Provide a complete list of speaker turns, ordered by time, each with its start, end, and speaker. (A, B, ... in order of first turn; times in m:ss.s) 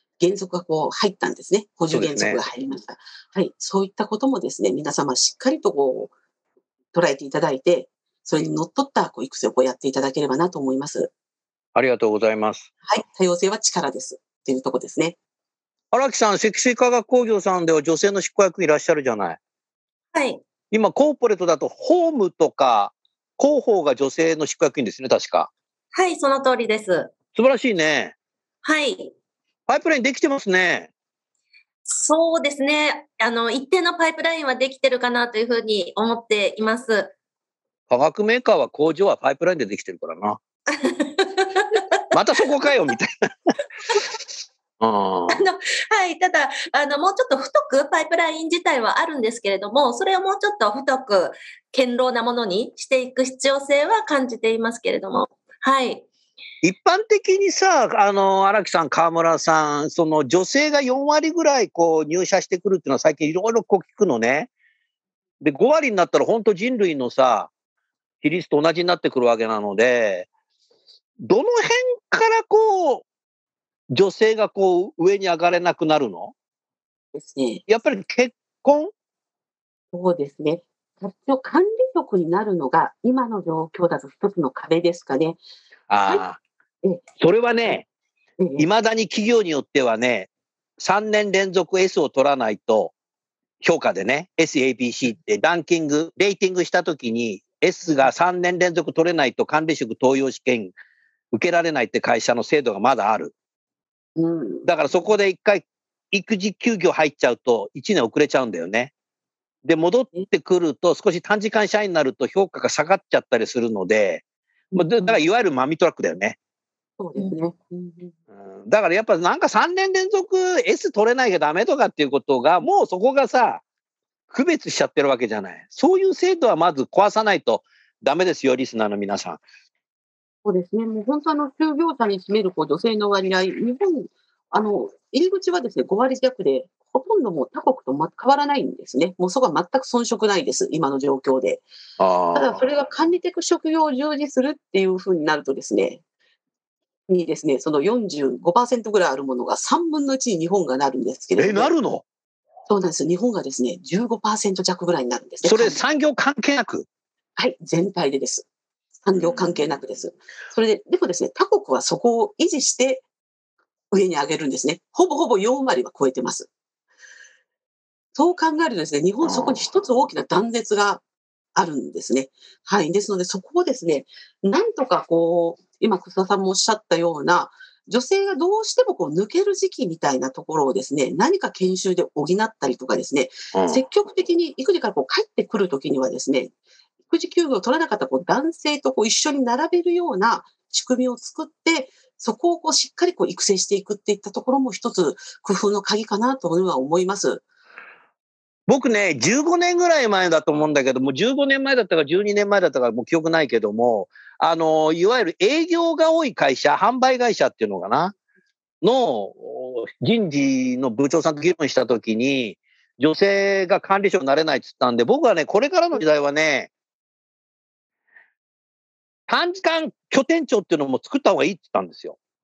0:00.2-0:06.1 A
0:01.9-0:02.4 B
0:06.9-0:11.1 A
0:11.7-0:12.7 B
0:12.8-0:15.2 A
0:15.9-0:19.4 B
0:20.1-0:20.4 C
0:20.7-0:25.5 B
0:25.9-0:27.1 C
0:27.3-0:28.1 B
0:28.6-0:29.1 C
0:29.7-0:30.9 B
0:31.8-0:37.1 C
0:37.9-0:40.4 B
0:40.7-0:42.0 C
0:42.1-0:43.5 B
0:44.8-0:45.4 B
0:45.3-0:56.0 C
0:56.6-1:04.5 B
1:05.4-1:07.5 B
1:08.2-1:10.3 B
1:11.2-1:13.0 B
1:13.9-1:16.3 B
1:17.1-1:17.6 A
1:17.7-1:18.9 B
1:19.9-1:25.4 A
1:25.9-1:26.4 B
1:27.2-1:27.8 B
1:28.4-1:28.6 A
1:28.6-1:32.9 B
1:33.6-1:40.7 B
1:41.3-1:43.3 B
1:44.2-1:45.0 A
1:44.6-1:48.9 B
1:49.6-1:54.2 B
1:54.7-1:55.2 A
1:54.8-1:56.4 B
1:57.0-1:58.1 A
1:58.4-2:03.6 B
2:04.3-2:09.4 B
2:10.4-2:21.6 A
2:22.0-2:22.6 B
2:22.3-2:26.0 A
2:27.1-2:31.7 A
2:31.4-2:32.0 B
2:32.7-2:35.8 A
2:35.4-2:36.8 B
2:37.4-2:38.4 A
2:39.0-2:43.0 A
2:39.1-2:39.8 B
2:43.9-2:46.5 A
2:48.1-2:51.0 A
2:49.2-2:49.7 B
2:51.5-3:06.5 A
3:03.5-3:03.8 B
3:07.1-3:17.4 A
3:18.7-3:28.1 B
3:28.8-3:36.7 B
3:39.3-3:42.2 B